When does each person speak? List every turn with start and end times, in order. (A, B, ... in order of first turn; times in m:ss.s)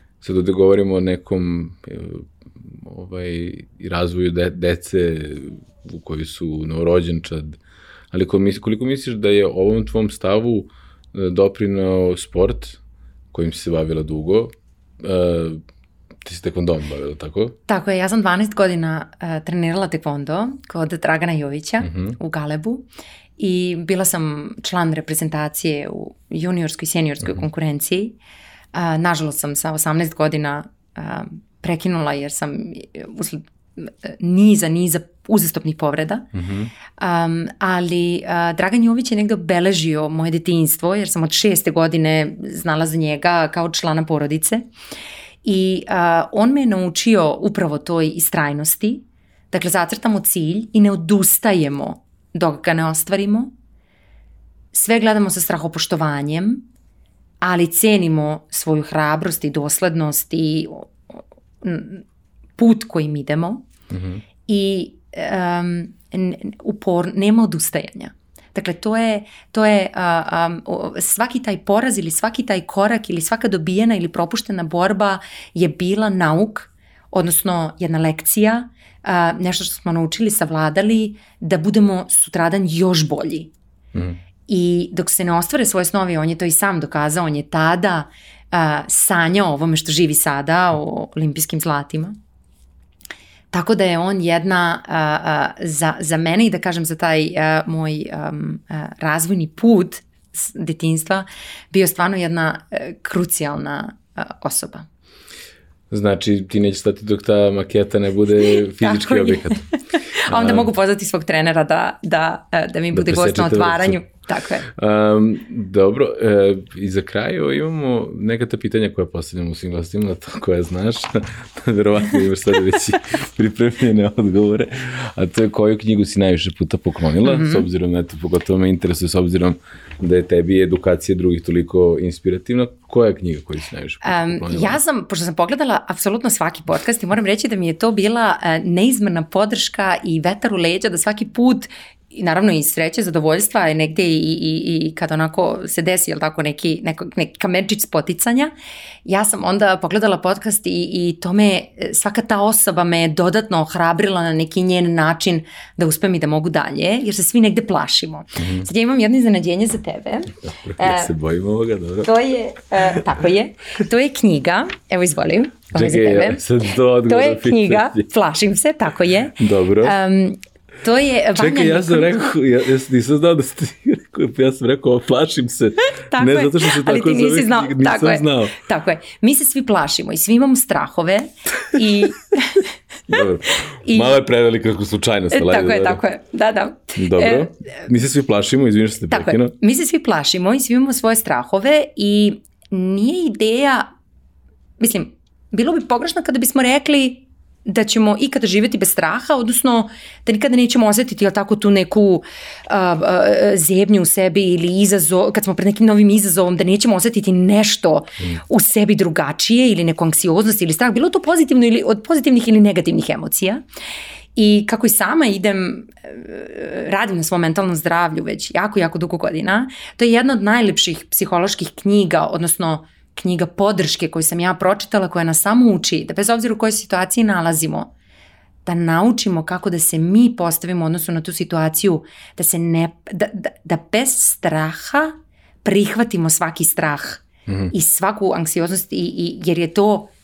0:00.2-0:07.6 A
0:08.1-0:12.8 A
0:13.3-0:15.6 A
0:16.2-0:17.6 A
0:17.7-0:28.2 B
0:21.8-0:22.2 A
0:28.7-0:36.3 B
0:36.3-0:36.7 A
0:36.9-0:44.7 B
0:45.4-0:53.5 B
0:54.7-0:56.6 B
0:57.4-1:00.9 B
1:01.6-1:02.0 B
1:02.6-1:03.7 B
1:03.9-1:04.2 A
1:04.5-1:23.5 B
1:24.5-1:32.1 B
1:33.5-1:44.9 B
1:45.9-1:50.7 A
1:48.4-1:54.7 B
1:52.9-1:54.0 A
1:54.7-2:14.8 A
2:07.2-2:07.7 B
2:14.0-2:28.5 B
2:29.0-2:41.1 B
2:38.4-2:38.7 A
2:40.4-2:42.1 A
2:42.0-2:46.4 B
2:45.7-2:48.1 A
2:47.0-2:52.2 B
2:49.4-2:50.0 A
2:51.4-2:58.6 A
2:56.0-3:03.2 B
3:03.1-3:06.0 A
3:03.8-3:04.2 B
3:05.3-3:07.5 B
3:07.0-3:09.5 A
3:09.1-3:13.9 B
3:14.8-3:33.6 B
3:34.4-3:47.9 B
3:48.6-4:00.1 B
3:57.5-3:57.7 A